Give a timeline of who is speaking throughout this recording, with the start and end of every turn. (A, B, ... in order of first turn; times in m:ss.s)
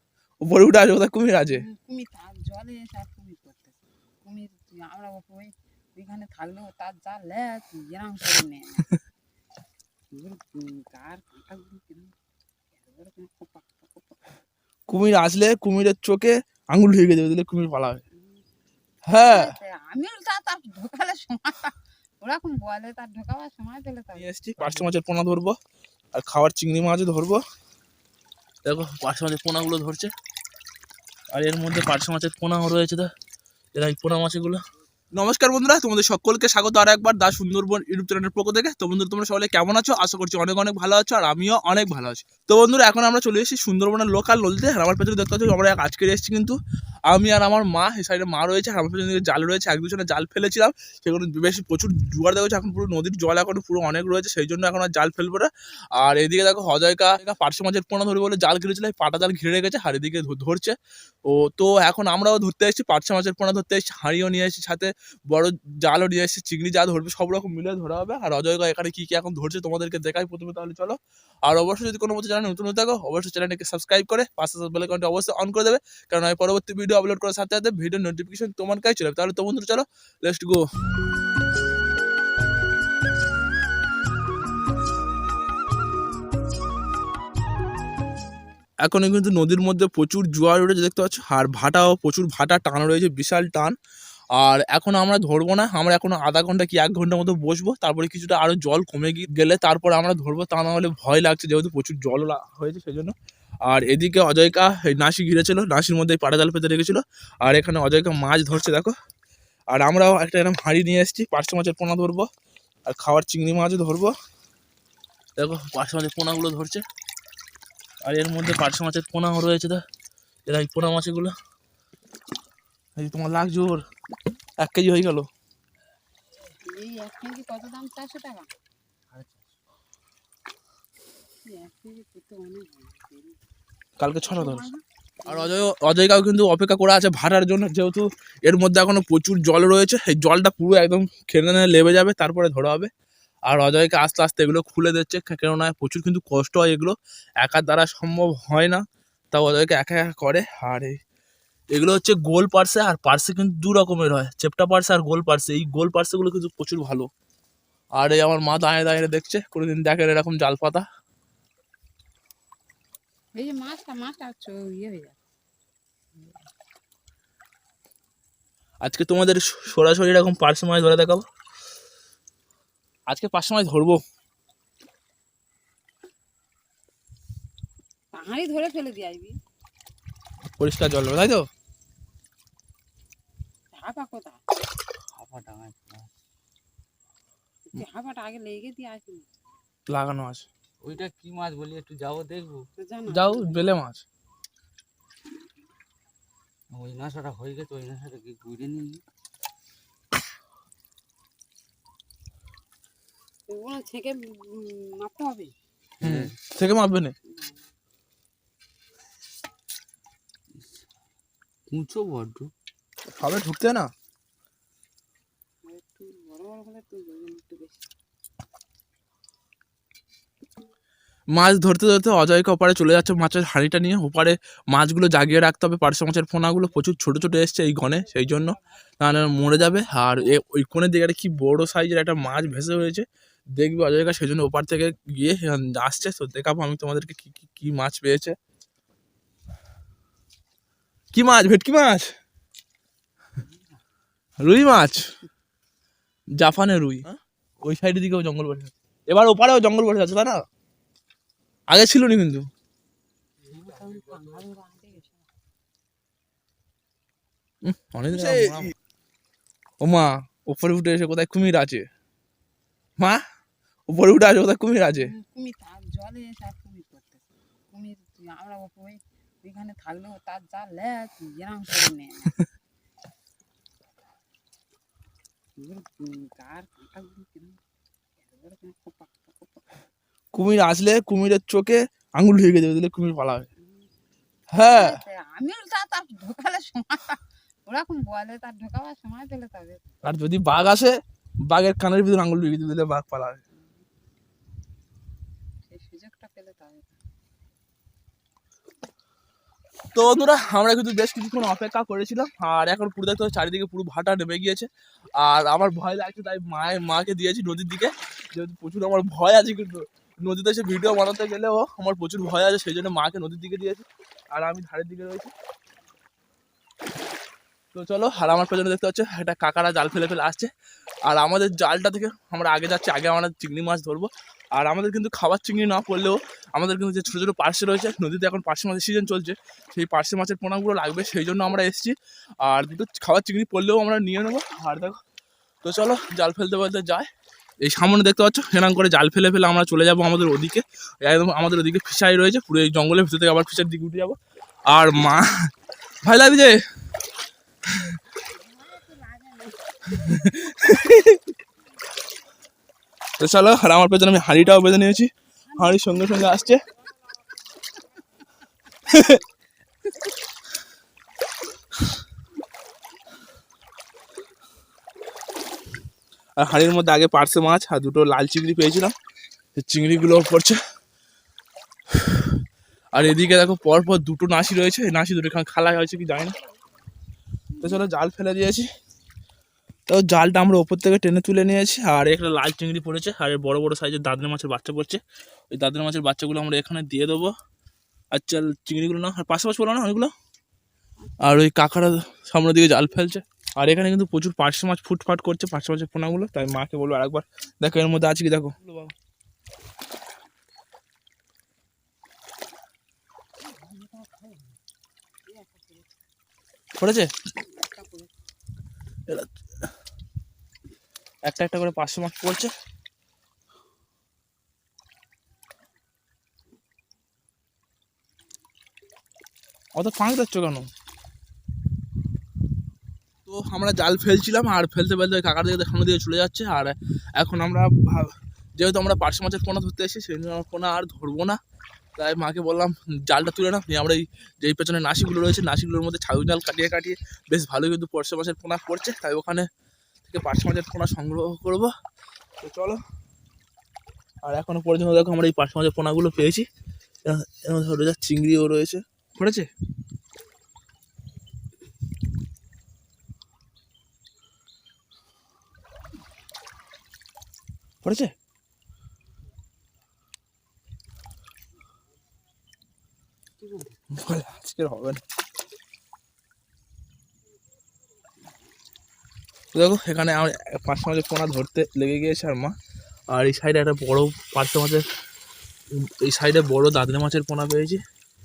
0:00.4-0:01.6 A
0:01.5-0:08.9 B
0:10.1-0:12.1 B
0:12.7-0:14.2 B
0:14.9-0:18.0 A
0:18.2-0:18.4 B
0:19.1-0:19.5 A
0:19.2-0:24.9 B
0:24.1-0:25.6 A
0:26.1-0:27.4 A
0:28.6-0:30.1 A
0:31.3-0:33.1 A
0:33.7-0:34.6 A
0:35.1-0:46.5 A
0:47.1-1:00.8 A
1:01.3-1:20.6 A
1:28.8-1:33.8 A
1:34.3-1:43.1 A
1:43.6-1:48.9 A
1:49.7-1:52.3 A
1:52.8-1:54.1 A
1:55.4-1:56.8 A
1:58.0-1:59.8 A
2:00.4-2:01.3 A
2:03.0-2:03.8 A
2:04.6-2:05.3 A
2:06.6-2:08.5 B
2:11.4-2:13.4 B
2:14.0-2:14.7 A
2:14.2-2:15.7 B
2:15.2-2:22.9 A
2:23.5-2:31.0 A
2:31.7-2:37.1 A
2:37.9-2:40.8 A
2:43.4-2:45.2 B
2:48.8-2:51.2 A
2:53.1-2:54.0 A
2:58.1-2:59.4 B
3:00.6-3:01.4 A
3:03.7-3:04.4 B
3:05.2-3:06.1 C
3:07.7-3:09.3 B
3:09.9-3:10.5 A
3:10.8-3:12.6 C
3:12.8-3:13.7 B
3:13.1-3:14.0 A
3:16.7-3:19.0 C
3:23.5-3:25.5 B
3:26.0-3:26.3 C
3:26.0-3:27.1 A
3:27.2-3:27.7 B
3:30.5-3:30.9 C
3:31.7-3:32.5 C
3:33.2-3:33.9 A
3:35.6-3:37.9 B
3:41.3-3:53.0 A
3:47.8-3:48.6 B
3:53.6-3:58.3 A
4:01.1-4:02.1 A
4:04.4-4:05.1 A
4:06.4-4:07.1 A
4:07.6-4:10.4 A
4:11.7-4:12.5 A
4:13.4-4:15.2 B
4:17.6-4:18.7 A
4:19.8-4:21.8 A
4:23.9-4:25.1 A
4:25.0-4:32.4 B
4:35.6-4:37.6 B
4:38.2-4:39.7 B
4:40.3-4:43.5 A
4:43.6-4:43.9 B
4:44.5-4:45.0 A
4:44.6-4:49.9 B
4:50.0-4:51.0 A
4:51.5-4:53.4 A
4:53.5-4:53.8 B
4:55.7-4:56.9 B
4:59.9-5:15.3 A
5:17.7-5:20.5 A
5:21.0-5:35.0 A
5:35.6-5:37.1 A
5:37.6-5:44.2 A
5:44.7-5:45.4 A
5:46.0-5:46.6 A
5:48.1-5:50.1 B
5:49.9-5:51.2 A
5:53.2-5:56.6 A
5:55.5-5:56.5 B
5:58.8-5:59.2 A
6:06.4-6:08.9 A
6:09.5-6:10.6 A
6:11.9-6:12.3 A
6:12.9-6:16.4 A
6:17.6-6:18.7 A
6:19.9-6:27.3 A
6:28.1-6:30.1 A
6:31.2-6:38.9 A
6:43.8-6:44.1 B
6:45.3-6:45.9 B
6:46.8-6:47.1 A
6:47.4-6:48.1 B
6:51.2-6:52.5 A
6:59.7-7:00.7 A
7:03.2-7:11.4 A
7:12.0-7:19.5 A
7:20.0-7:21.7 A
7:22.4-7:22.8 A
7:24.2-7:26.5 A
7:27.0-7:29.5 A
7:37.8-7:38.1 A
7:43.9-7:45.0 A
7:49.5-7:52.6 A
7:53.1-7:54.8 A
7:55.8-7:57.8 A